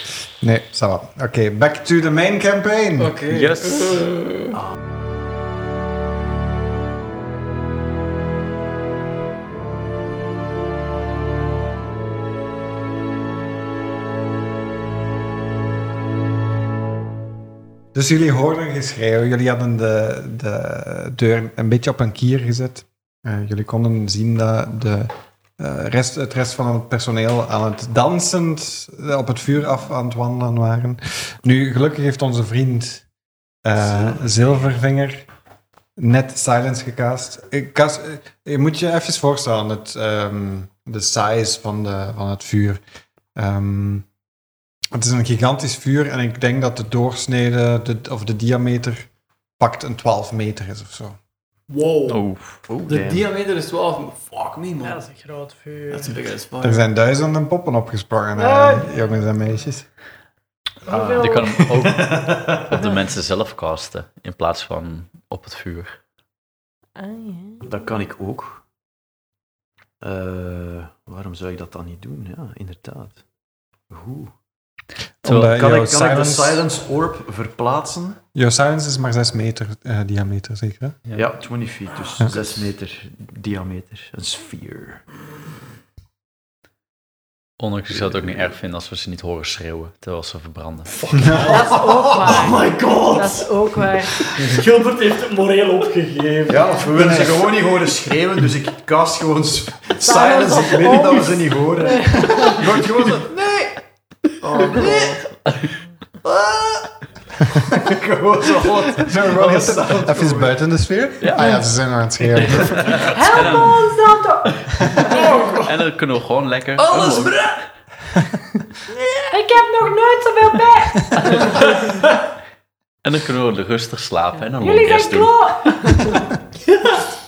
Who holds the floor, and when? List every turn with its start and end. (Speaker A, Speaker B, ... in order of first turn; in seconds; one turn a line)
Speaker A: 0.4-3.1
Speaker B: 3.0-4.6
Speaker C: 3.3-4.0
Speaker A: 17.9-33.0
Speaker A: 33.6-35.2
Speaker A: 36.0-42.8
Speaker A: 43.4-44.0
Speaker A: 44.9-49.1
Speaker A: 49.6-51.2
Speaker B: 51.7-52.2
Speaker C: 52.1-52.8
Speaker D: 52.7-53.3
Speaker B: 52.9-55.0
Speaker E: 54.8-56.1
Speaker B: 55.9-56.8
Speaker A: 56.6-59.9
Speaker E: 58.3-59.2
Speaker E: 60.9-61.5
Speaker D: 60.9-62.8
Speaker C: 61.2-66.0
Speaker E: 67.0-67.9
Speaker D: 67.6-68.6
Speaker D: 70.0-73.2
Speaker D: 73.9-74.3
Speaker A: 75.2-76.6
Speaker D: 75.3-78.2
Speaker A: 78.3-81.0
Speaker D: 81.1-85.0
Speaker A: 82.2-82.5
Speaker C: 87.6-91.0
Speaker D: 87.9-88.5
Speaker B: 90.9-91.8
Speaker A: 91.1-91.6
Speaker E: 91.4-94.4
Speaker D: 91.7-92.5
Speaker B: 92.3-93.5
Speaker B: 94.2-97.2
Speaker D: 96.5-103.7
Speaker A: 96.9-97.5
Speaker E: 100.0-102.6
Speaker D: 104.4-105.2
Speaker B: 104.4-105.4
Speaker D: 106.2-106.9
Speaker D: 107.6-110.5
Speaker A: 108.9-113.0
Speaker C: 111.2-111.5
Speaker C: 112.3-114.1
Speaker E: 113.0-115.2
Speaker B: 115.0-115.8
Speaker C: 115.1-117.5
Speaker D: 116.8-117.5
Speaker E: 119.3-121.8
Speaker C: 123.0-126.0
Speaker E: 124.6-126.2